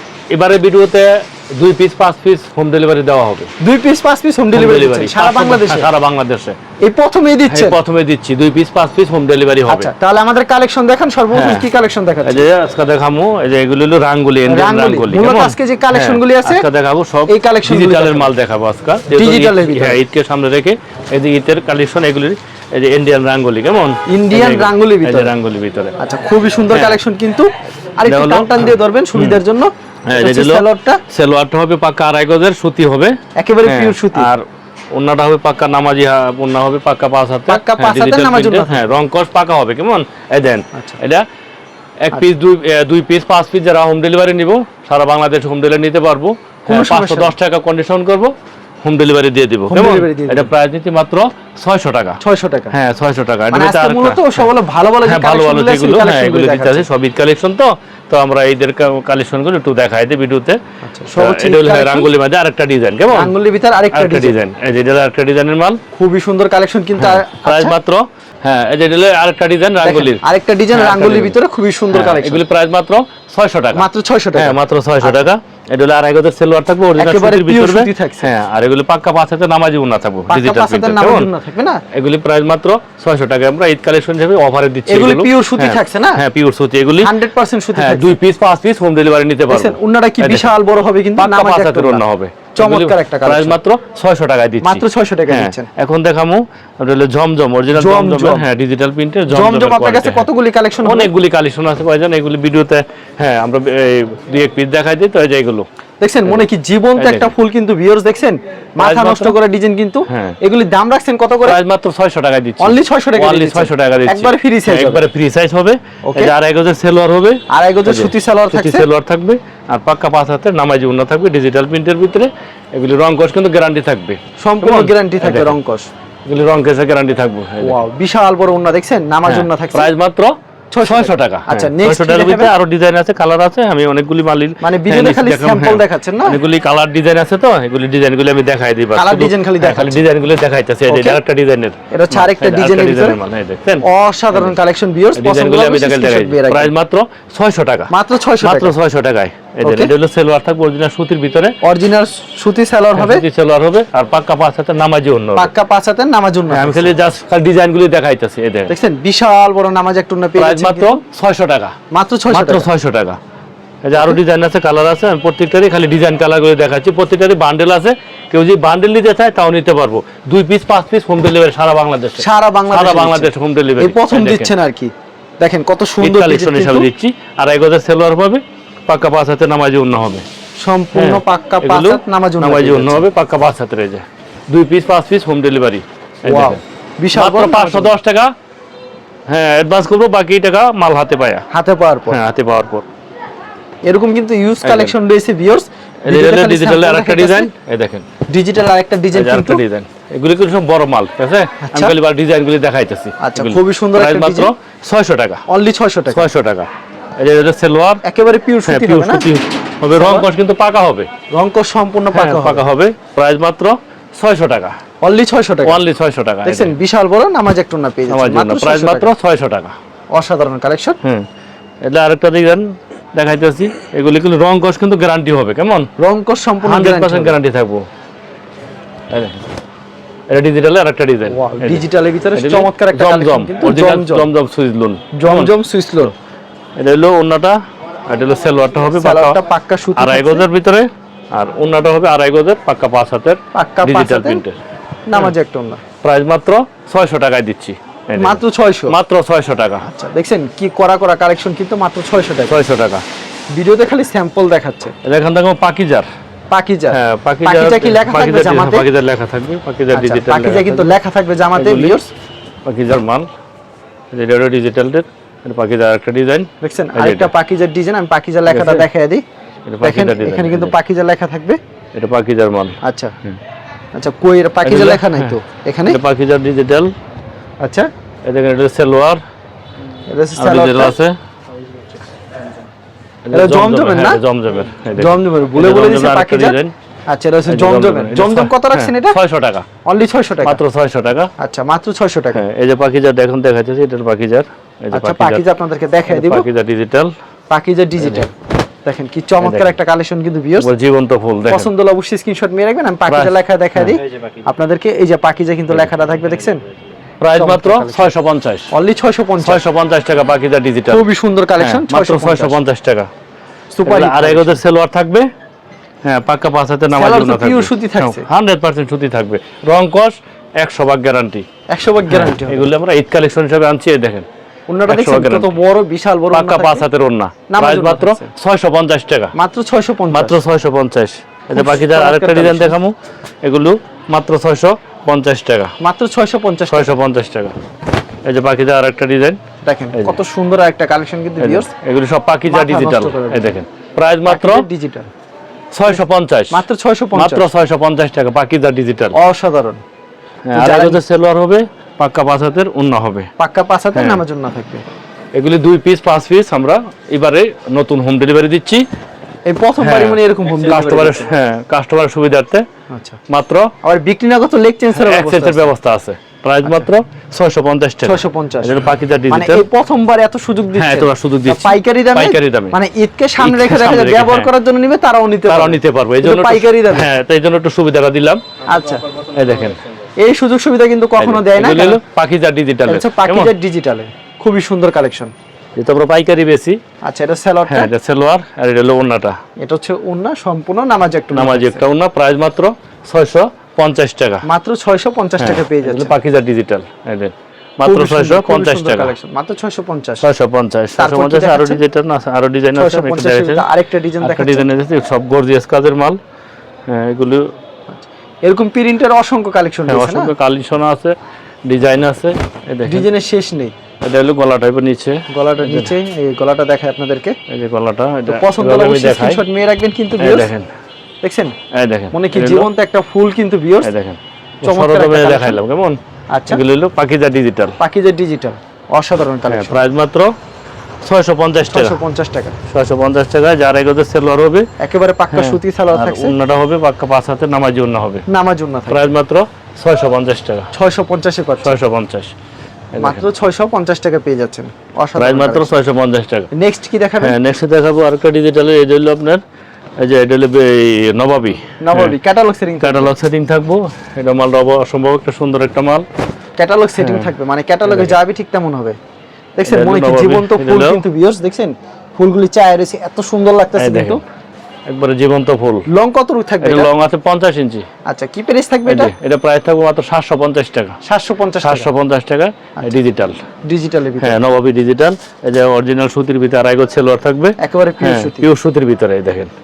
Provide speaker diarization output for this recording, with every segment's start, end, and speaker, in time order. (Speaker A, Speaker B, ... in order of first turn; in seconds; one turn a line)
Speaker A: 0.3-3.5
Speaker B: 3.6-5.9
Speaker A: 4.5-6.6
Speaker B: 6.8-7.8
Speaker A: 7.5-9.9
Speaker B: 9.7-12.5
Speaker A: 11.3-11.7
Speaker A: 12.2-25.9
Speaker B: 14.5-16.6
Speaker B: 17.3-18.3
Speaker B: 19.1-20.0
Speaker B: 24.1-25.3
Speaker B: 26.0-31.0
Speaker A: 26.7-27.0
Speaker A: 28.0-29.4
Speaker A: 30.1-41.2
Speaker B: 33.3-34.3
Speaker B: 37.5-38.9
Speaker A: 42.0-48.3
Speaker B: 46.7-47.3
Speaker A: 48.8-52.2
Speaker B: 49.7-50.5
Speaker B: 52.2-52.8
Speaker A: 52.7-54.5
Speaker B: 53.5-56.9
Speaker A: 55.0-60.6
Speaker B: 60.8-62.1
Speaker A: 61.1-63.3
Speaker B: 63.1-64.4
Speaker A: 63.9-65.8
Speaker B: 65.9-67.8
Speaker A: 67.0-71.4
Speaker B: 69.8-72.4
Speaker A: 71.9-81.3
Speaker B: 73.7-75.3
Speaker B: 77.0-78.3
Speaker B: 80.3-81.8
Speaker A: 81.9-87.1
Speaker B: 84.9-86.2
Speaker B: 87.0-88.1
Speaker A: 87.7-90.5
Speaker B: 89.5-92.0
Speaker A: 91.2-100.2
Speaker B: 92.5-93.6
Speaker B: 94.6-95.7
Speaker B: 97.7-98.5
Speaker B: 99.3-101.1
Speaker A: 100.8-105.7
Speaker B: 106.0-111.6
Speaker A: 107.0-107.3
Speaker A: 108.8-109.3
Speaker A: 110.1-110.4
Speaker A: 111.4-125.5
Speaker B: 112.6-115.1
Speaker B: 116.0-116.3
Speaker B: 117.5-118.9
Speaker B: 124.4-125.9
Speaker A: 126.2-127.8
Speaker B: 127.6-129.9
Speaker A: 129.2-144.5
Speaker B: 130.7-132.5
Speaker B: 134.6-136.4
Speaker B: 138.9-140.0
Speaker B: 140.9-141.2
Speaker B: 141.9-143.2
Speaker B: 143.8-146.7
Speaker A: 145.2-151.6
Speaker B: 147.9-148.8
Speaker B: 149.6-149.9
Speaker B: 151.6-153.2
Speaker A: 152.9-155.5
Speaker B: 155.3-156.9
Speaker A: 156.5-158.7
Speaker B: 158.7-161.0
Speaker A: 160.3-161.8
Speaker B: 161.9-162.7
Speaker A: 162.3-163.2
Speaker A: 163.8-174.5
Speaker B: 172.2-176.9
Speaker A: 176.0-180.2
Speaker B: 180.6-183.1
Speaker A: 180.9-186.6
Speaker B: 186.2-187.9
Speaker A: 187.1-188.3
Speaker A: 189.3-191.4
Speaker B: 191.5-192.2
Speaker A: 192.1-192.8
Speaker B: 193.8-197.5
Speaker A: 194.6-194.9
Speaker A: 196.0-198.1
Speaker B: 198.3-199.6
Speaker A: 199.1-205.4
Speaker B: 201.6-202.0
Speaker B: 203.2-204.5
Speaker B: 205.5-206.3
Speaker A: 206.1-208.0
Speaker B: 208.0-209.3
Speaker A: 208.7-211.1
Speaker B: 209.9-210.3
Speaker B: 211.3-212.6
Speaker A: 212.1-214.8
Speaker B: 215.0-215.8
Speaker A: 215.6-216.7
Speaker B: 216.4-219.1
Speaker A: 218.1-219.8
Speaker B: 220.1-221.0
Speaker A: 221.8-225.9
Speaker B: 226.0-227.4
Speaker A: 226.6-227.8
Speaker A: 229.1-229.4
Speaker A: 230.3-235.5
Speaker B: 231.3-234.3
Speaker B: 235.1-236.1
Speaker A: 236.8-239.4
Speaker B: 238.9-240.5
Speaker A: 240.0-244.6
Speaker B: 243.5-244.4
Speaker B: 245.1-245.8
Speaker A: 246.0-249.9
Speaker B: 248.2-248.9
Speaker B: 249.8-252.6
Speaker A: 252.5-253.0
Speaker B: 253.5-254.9
Speaker A: 255.0-256.1
Speaker B: 256.5-258.9
Speaker A: 256.9-260.9
Speaker B: 259.9-262.1
Speaker A: 261.5-262.0
Speaker A: 262.6-263.3
Speaker A: 264.1-267.3
Speaker B: 266.6-269.2
Speaker A: 268.5-268.9
Speaker A: 269.7-270.7
Speaker B: 269.8-271.6
Speaker A: 271.9-273.4
Speaker B: 272.8-273.1
Speaker B: 273.9-276.0
Speaker A: 274.6-276.9
Speaker B: 277.6-277.9
Speaker A: 278.2-279.2
Speaker B: 280.1-281.0
Speaker A: 280.4-281.1
Speaker A: 283.2-286.7
Speaker B: 283.3-284.2
Speaker B: 284.9-289.2
Speaker A: 287.5-289.7
Speaker B: 289.8-290.6
Speaker A: 290.4-291.3
Speaker B: 291.4-292.4
Speaker A: 292.3-295.4
Speaker B: 294.9-296.5
Speaker A: 296.1-297.1
Speaker B: 297.5-298.3
Speaker A: 298.0-298.2
Speaker B: 298.8-300.7
Speaker A: 299.4-299.7
Speaker A: 300.6-301.7
Speaker B: 301.5-306.6
Speaker A: 303.1-304.0
Speaker A: 305.7-306.0
Speaker A: 307.2-308.7
Speaker B: 307.3-308.1
Speaker B: 308.7-309.6
Speaker A: 309.4-313.1
Speaker B: 310.9-312.6
Speaker B: 313.7-314.6
Speaker A: 313.9-315.3
Speaker A: 316.0-321.4
Speaker B: 316.9-318.3
Speaker B: 321.7-322.7
Speaker A: 322.1-324.3
Speaker B: 324.7-326.9
Speaker A: 324.9-325.6
Speaker A: 326.3-329.3
Speaker B: 327.5-328.3
Speaker B: 329.3-330.4
Speaker A: 330.1-335.7
Speaker B: 331.5-332.8
Speaker B: 335.8-336.9
Speaker A: 336.7-337.5
Speaker A: 338.2-339.4
Speaker B: 339.6-341.7
Speaker A: 339.9-340.2
Speaker A: 341.4-344.6
Speaker B: 342.5-343.6
Speaker B: 344.2-345.1
Speaker A: 345.7-346.6
Speaker B: 345.9-347.5
Speaker A: 347.1-349.2
Speaker B: 349.1-349.8
Speaker A: 350.4-353.3
Speaker B: 350.5-351.0
Speaker B: 353.4-354.8
Speaker A: 353.9-354.2
Speaker A: 355.3-358.9
Speaker B: 359.4-361.3
Speaker A: 359.8-362.6
Speaker B: 362.9-363.2
Speaker A: 363.3-363.7
Speaker B: 363.8-365.7
Speaker A: 364.9-369.6
Speaker B: 368.0-377.1
Speaker A: 370.8-372.8
Speaker A: 373.4-374.5
Speaker A: 375.5-378.4
Speaker B: 378.7-379.1
Speaker A: 379.3-379.8
Speaker B: 380.2-382.0
Speaker A: 381.2-383.5
Speaker B: 382.9-385.3
Speaker A: 385.8-386.8
Speaker B: 387.0-387.9
Speaker A: 387.7-389.4
Speaker B: 389.6-391.8
Speaker A: 391.3-394.4
Speaker B: 394.4-396.1
Speaker A: 395.4-399.1
Speaker B: 397.8-400.3
Speaker A: 400.2-403.6
Speaker B: 401.0-401.8
Speaker B: 402.7-404.7
Speaker A: 404.2-406.2
Speaker A: 406.9-407.5
Speaker B: 407.9-410.3
Speaker A: 409.9-411.1
Speaker A: 411.6-413.1
Speaker B: 412.9-413.7
Speaker A: 414.0-415.9
Speaker B: 415.3-417.4
Speaker A: 417.5-419.4
Speaker B: 418.3-420.5
Speaker A: 420.2-420.7
Speaker B: 421.2-421.5
Speaker A: 421.7-422.7
Speaker B: 422.1-423.9
Speaker A: 423.8-426.0
Speaker B: 424.6-425.6
Speaker B: 426.3-426.6
Speaker A: 426.5-427.8
Speaker B: 427.8-429.8
Speaker A: 429.5-430.3
Speaker A: 431.0-432.0
Speaker B: 431.7-432.6
Speaker A: 432.7-434.7
Speaker B: 434.8-436.3
Speaker A: 435.3-438.2
Speaker B: 438.3-439.1
Speaker A: 438.9-440.7
Speaker B: 440.7-441.8
Speaker A: 441.6-442.3
Speaker A: 442.9-443.2
Speaker B: 443.0-445.8
Speaker A: 445.2-446.5
Speaker B: 446.5-447.4
Speaker A: 447.2-449.4
Speaker A: 450.0-452.1
Speaker B: 451.8-453.1
Speaker A: 452.8-456.0
Speaker B: 456.6-459.0
Speaker A: 457.0-457.3
Speaker A: 457.8-458.2
Speaker B: 459.6-464.2
Speaker A: 459.7-461.0
Speaker A: 463.8-464.2
Speaker A: 464.9-465.9
Speaker B: 465.9-466.9
Speaker A: 466.6-467.9
Speaker B: 468.1-469.1
Speaker A: 468.9-471.0
Speaker B: 471.0-471.9
Speaker A: 471.6-473.4
Speaker B: 473.6-474.4
Speaker A: 474.2-479.5
Speaker B: 477.6-478.5